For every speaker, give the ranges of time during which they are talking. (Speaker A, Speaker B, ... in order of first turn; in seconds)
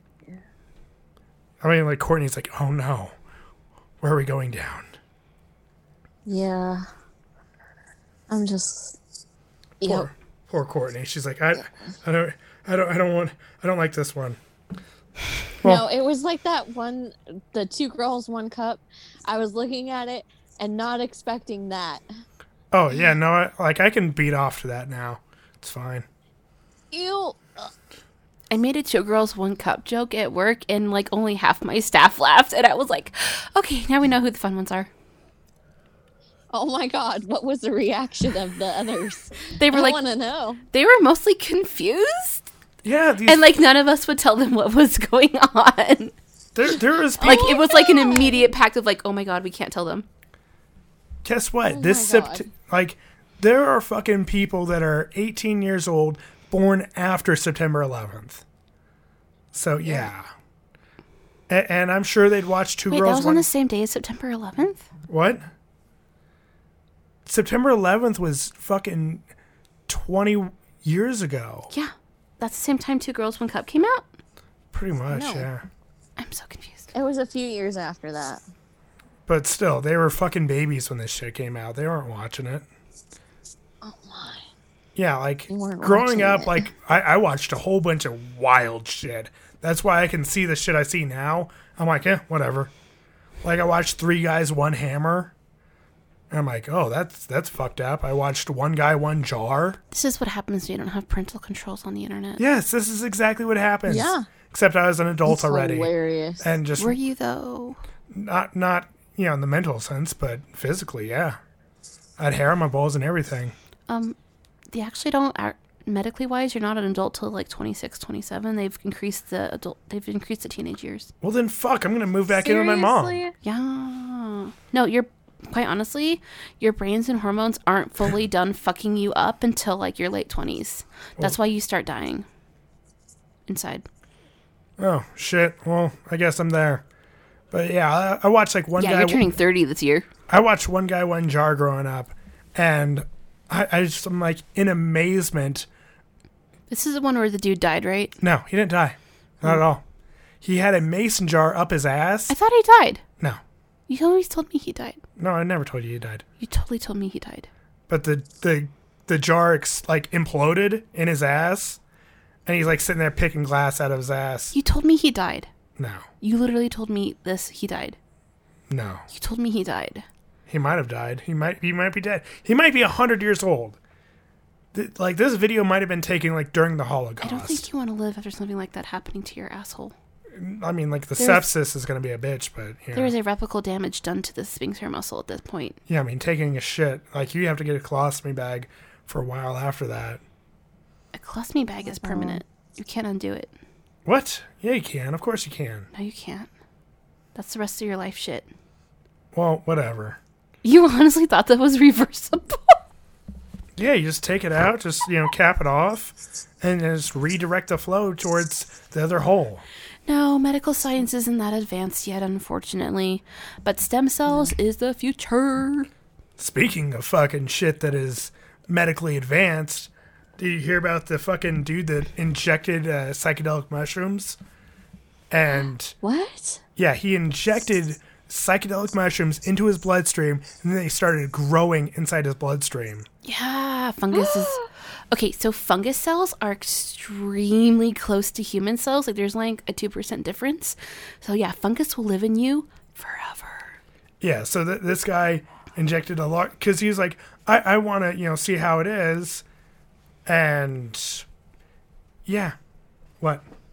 Speaker A: 1.6-3.1, 4.0-5.0, 9.8-14.4, 22.7-26.1, 42.8-43.5, 46.5-47.5, 51.2-58.4, 59.5-60.3, 61.5-63.5, 65.1-65.5, 67.3-69.2, 69.9-71.7, 74.7-75.7, 79.3-82.7, 85.0-92.7, 93.4-95.3, 96.3-99.8, 102.4-105.9, 106.4-107.0, 108.1-111.4, 112.2-113.5, 121.2-123.2, 134.8-136.8, 137.5-139.3, 140.3-145.7, 148.2-149.8, 150.4-152.3, 155.2-156.2, 157.9-161.8, 162.5-164.5, 165.8-166.1, 168.7-169.1, 170.5-173.8, 174.7-177.7, 180.3-183.1, 185.9-190.2, 194.1-195.9, 199.3-200.2, 203.8-209.6, 216.4-224.4, 225.3-225.9, 226.8-233.1, 244.2-249.4, 250.3-251.3, 252.3-252.6
Speaker B: 6.3-6.8, 8.3-9.0, 9.8-10.1, 15.6-22.0, 26.9-27.7, 36.5-40.6, 47.2-48.5, 51.7-52.5, 75.1-75.5, 76.9-78.4, 83.8-84.5, 85.5-86.7, 103.9-104.3, 105.3-106.5, 122.4-123.3, 191.8-192.4, 226.0-226.6, 234.1-234.7
Speaker C: 28.5-34.9, 39.6-40.0, 40.7-42.5, 43.3-46.1, 47.2-50.1, 62.9-64.8, 71.7-74.1, 76.2-76.9, 99.9-102.4, 106.8-107.8, 113.9-114.2, 114.7-121.1, 123.4-132.3, 133.5-133.9, 138.8-140.1, 146.7-148.2, 152.3-153.0, 153.9-155.0, 156.4-157.5, 164.5-165.5, 166.2-168.0, 169.1-170.1, 177.2-179.9, 181.2-181.4, 182.9-185.8, 191.1-193.5, 195.9-196.5, 197.3-198.5, 200.6-202.8, 210.1-215.9, 233.2-243.8